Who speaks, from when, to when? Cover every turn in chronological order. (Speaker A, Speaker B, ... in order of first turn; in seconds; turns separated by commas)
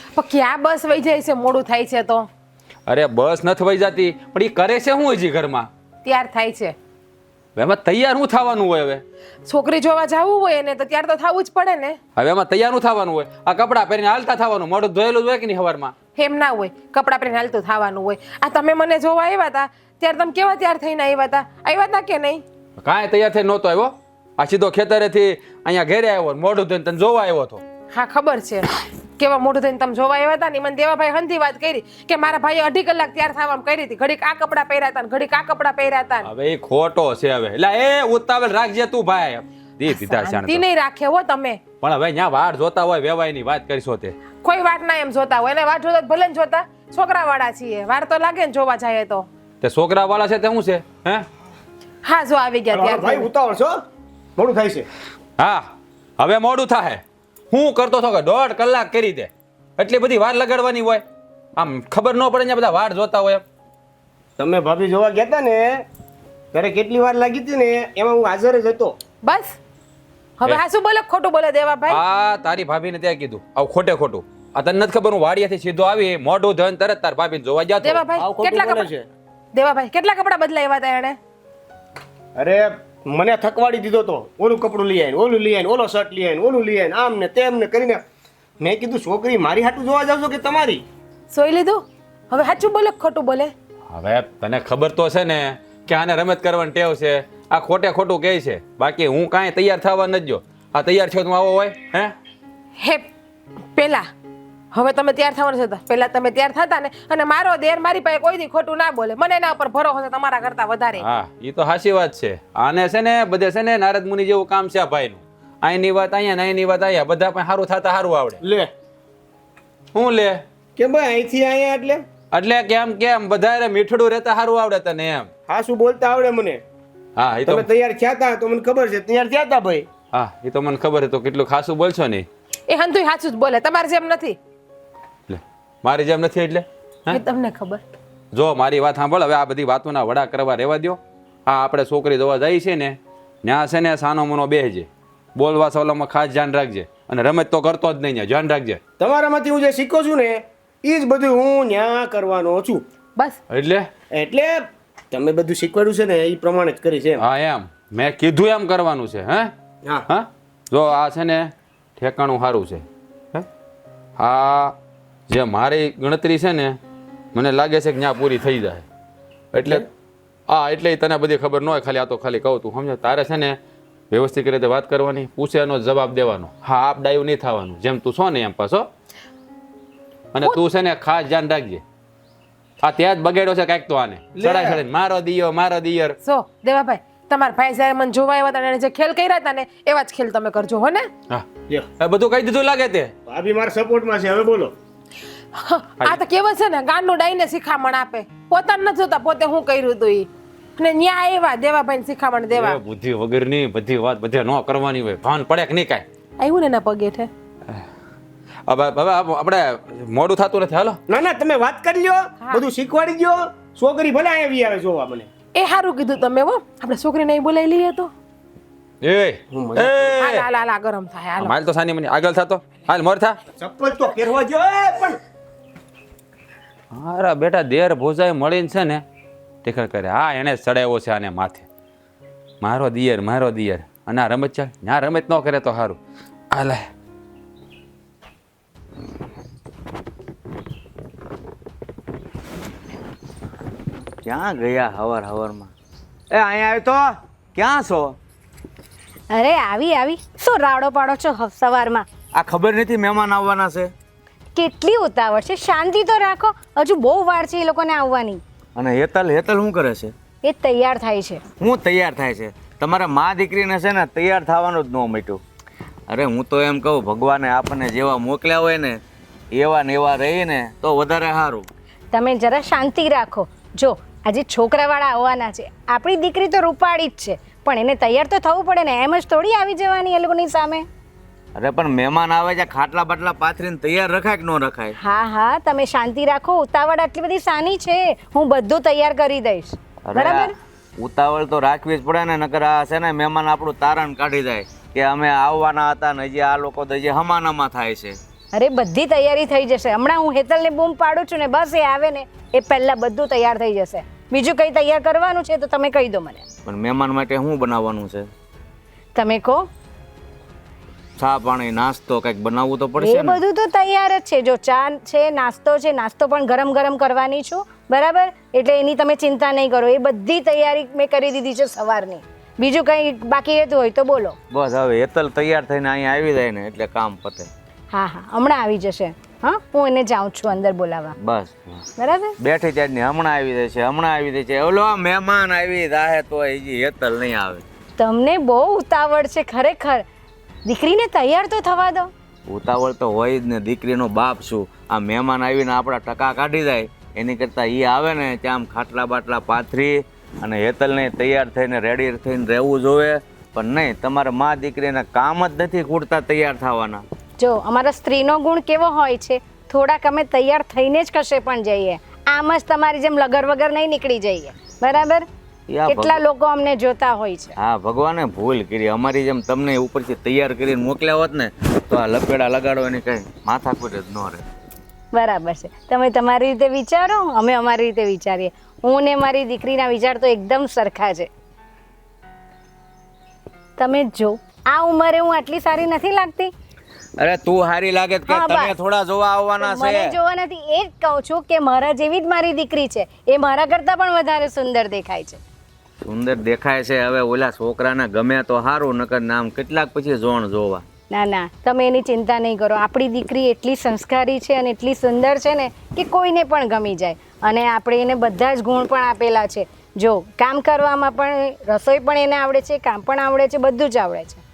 Speaker A: 0.2-2.3, Speaker B: 2.9-5.7, Speaker A: 6.0-6.7, Speaker B: 7.5-9.0, Speaker A: 9.5-11.9, Speaker B: 12.2-15.9, Speaker A: 16.1-22.4, Speaker B: 22.8-27.6, Speaker A: 27.9-36.2, Speaker B: 36.2-40.6, Speaker A: 39.9-41.6, Speaker B: 41.8-44.1, Speaker A: 44.4-49.2, Speaker B: 49.6-51.3, Speaker A: 52.0-53.3, Speaker C: 52.7-53.8, Speaker C: 54.4-54.9, Speaker B: 55.4-55.7, Speaker B: 56.2-61.0, Speaker B: 61.6-63.4, Speaker C: 64.4-65.8, Speaker C: 66.5-68.9, Speaker A: 69.2-69.5, Speaker A: 70.4-72.0, Speaker B: 71.9-78.0, Speaker A: 77.8-78.9, Speaker C: 78.2-79.0, Speaker A: 79.5-81.2, Speaker C: 82.4-88.0, Speaker C: 88.6-90.8, Speaker A: 91.3-93.5, Speaker B: 93.9-102.1, Speaker A: 102.8-103.1, Speaker A: 103.8-104.0, Speaker A: 104.7-111.0, Speaker B: 111.0-118.4, Speaker C: 118.4-118.7, Speaker B: 119.9-120.4, Speaker C: 120.8-122.0, Speaker B: 122.3-125.3, Speaker C: 125.5-126.6, Speaker B: 127.2-127.7, Speaker C: 127.5-129.9, Speaker B: 130.1-132.2, Speaker A: 132.7-134.3, Speaker B: 135.3-137.2, Speaker A: 137.1-137.8, Speaker B: 138.3-148.8, Speaker C: 149.0-152.8, Speaker B: 153.5-153.9, Speaker C: 154.1-157.2, Speaker B: 157.2-159.5, Speaker B: 160.1-163.4, Speaker B: 164.2-164.7, Speaker B: 165.3-166.8, Speaker B: 167.3-168.8, Speaker B: 169.5-169.8, Speaker B: 170.5-173.6, Speaker B: 174.1-178.9, Speaker B: 180.3-181.8, Speaker B: 182.8-186.2, Speaker C: 184.4-184.8, Speaker A: 186.2-191.1, Speaker B: 192.0-193.1, Speaker C: 193.3-194.7, Speaker A: 195.6-202.8, Speaker B: 202.5-206.0, Speaker A: 206.4-207.3, Speaker B: 208.7-211.0, Speaker C: 211.1-215.3, Speaker A: 215.6-218.1, Speaker B: 219.0-220.4, Speaker C: 219.5-220.0, Speaker A: 220.2-221.5, Speaker B: 221.4-223.4, Speaker C: 223.6-225.2, Speaker B: 226.9-229.0, Speaker B: 229.6-231.7, Speaker B: 232.6-236.0, Speaker B: 236.5-236.9, Speaker D: 244.2-245.7, Speaker D: 246.3-248.2, Speaker E: 249.3-252.0, Speaker D: 252.4-253.9, Speaker E: 254.6-258.4, Speaker D: 258.8-260.1, Speaker E: 260.4-261.4, Speaker D: 261.6-265.4, Speaker D: 266.1-269.0, Speaker D: 269.5-271.7, Speaker E: 272.1-280.8, Speaker D: 281.6-284.9, Speaker E: 285.0-290.5, Speaker D: 290.1-298.2, Speaker E: 298.5-306.4, Speaker D: 306.6-308.2, Speaker E: 309.1-309.6, Speaker D: 311.2-313.4, Speaker E: 313.0-324.4, Speaker D: 324.5-327.5, Speaker E: 327.9-331.1, Speaker D: 331.2-331.9, Speaker E: 332.0-332.4, Speaker D: 332.4-337.6, Speaker E: 338.0-340.0, Speaker E: 340.6-342.1, Speaker D: 342.5-357.0, Speaker E: 357.4-365.2, Speaker D: 365.7-366.2, Speaker E: 365.8-367.6, Speaker D: 367.6-374.4, Speaker E: 375.1-381.3, Speaker E: 383.8-386.5, Speaker D: 387.2-390.1, Speaker E: 388.3-388.7, Speaker E: 389.6-395.4, Speaker D: 396.0-400.8, Speaker E: 401.1-414.4